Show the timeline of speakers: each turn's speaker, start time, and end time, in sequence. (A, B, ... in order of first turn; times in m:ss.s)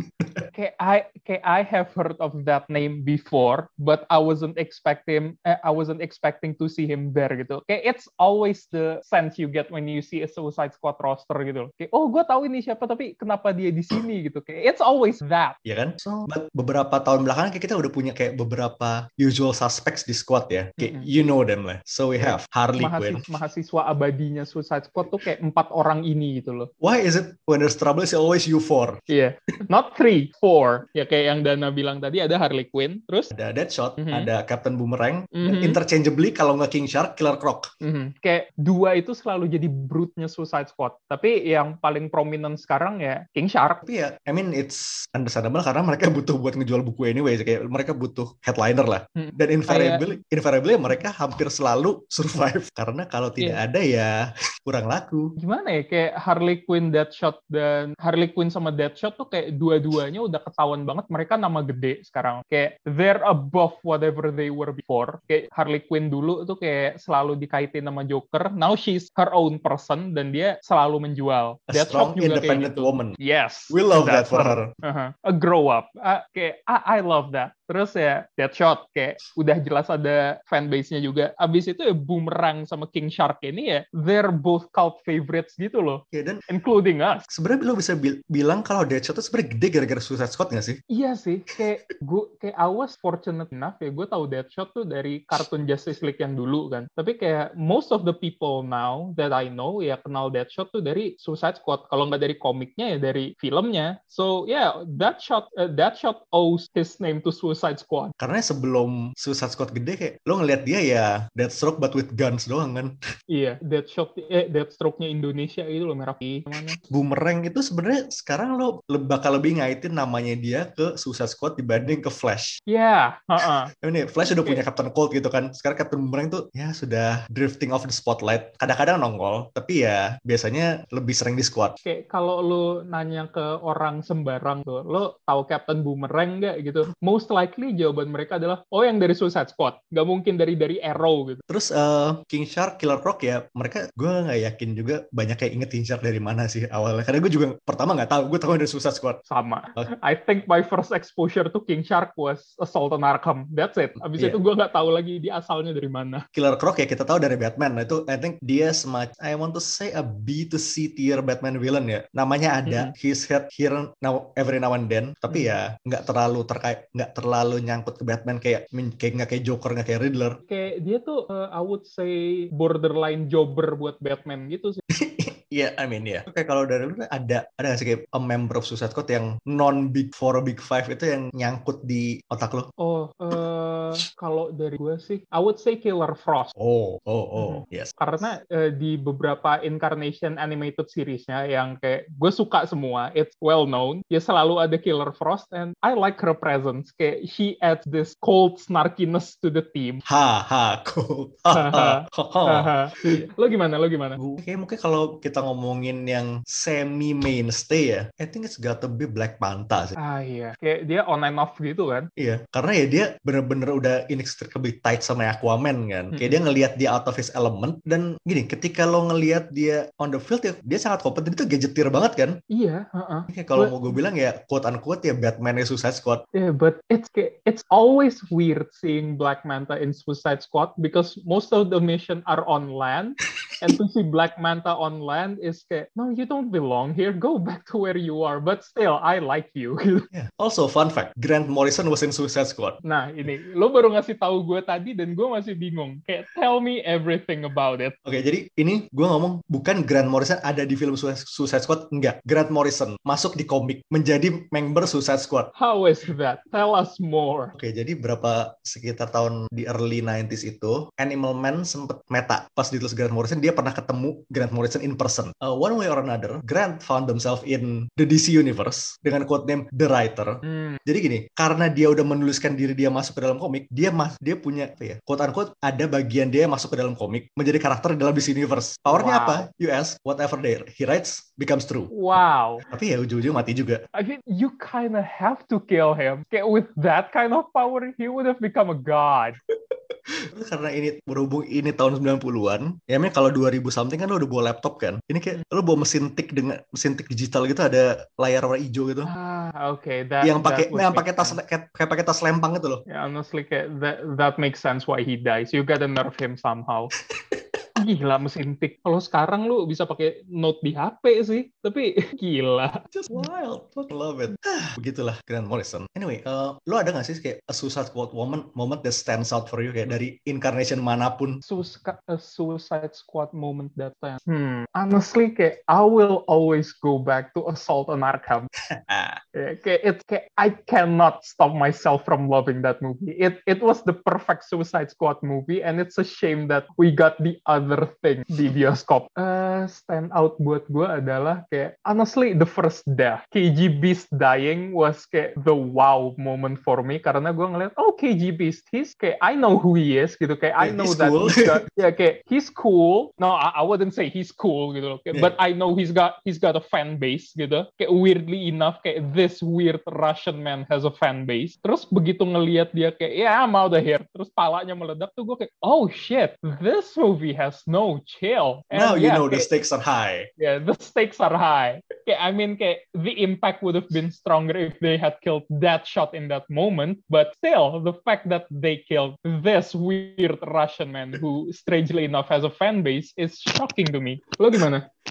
0:00.2-0:00.4 A
0:00.5-0:15.6 B
0:15.6-0:23.2 A
0:20.8-0:21.1 B
0:22.2-0:26.7 B
0:26.8-0:29.0 A
0:29.1-0:33.3 B
0:33.3-0:37.7 A
0:34.0-0:34.3 B
0:35.3-0:35.8 B
0:37.8-0:43.8 B
0:43.8-0:55.3 A
0:49.2-0:50.0 B
0:55.4-1:27.2 B
1:11.7-1:13.2 A
1:13.7-1:14.7 A
1:26.1-1:26.4 A
1:27.3-1:30.8 A
1:30.9-1:48.1 B
1:48.2-1:52.9 A
1:53.3-1:56.8 B
1:56.8-2:02.6 A
2:02.7-2:03.7 B
2:03.4-2:11.8 A
2:04.2-2:04.6 B
2:11.8-2:21.4 B
2:21.5-2:29.2 A
2:29.3-2:36.2 B
2:36.3-2:50.4 A
2:42.6-2:42.9 B
2:45.3-2:45.5 B
2:50.5-2:54.8 B
2:54.9-3:02.7 A
3:02.8-3:06.5 B
3:06.6-3:08.2 A
3:07.4-3:20.0 B
3:20.0-3:23.2 A
3:21.5-3:24.2 B
3:24.2-3:30.0 A
3:30.0-3:32.1 B
3:32.2-3:42.4 A
3:36.1-3:36.4 B
3:42.5-3:44.0 B
3:43.3-3:46.2 A
3:46.3-4:00.1 B
4:00.1-4:02.8 A
4:02.8-4:08.0 B
4:08.0-4:15.5 A
4:15.6-4:17.5 B
4:17.5-4:41.9 A
4:30.4-4:30.8 B
4:38.9-4:39.5 B
4:41.9-4:42.6 B
4:42.7-4:43.8 A
4:43.9-4:49.4 B
4:50.3-4:59.1 A
4:59.0-5:01.4 B
5:00.2-5:02.8 A
5:02.9-5:06.9 B
5:07.8-5:13.2 B
5:12.9-5:21.4 A
5:21.4-5:28.5 B
5:28.7-5:29.2 A
5:29.3-6:09.5 B
5:50.6-5:51.6 A
6:08.7-6:10.3 A
6:10.4-6:24.8 B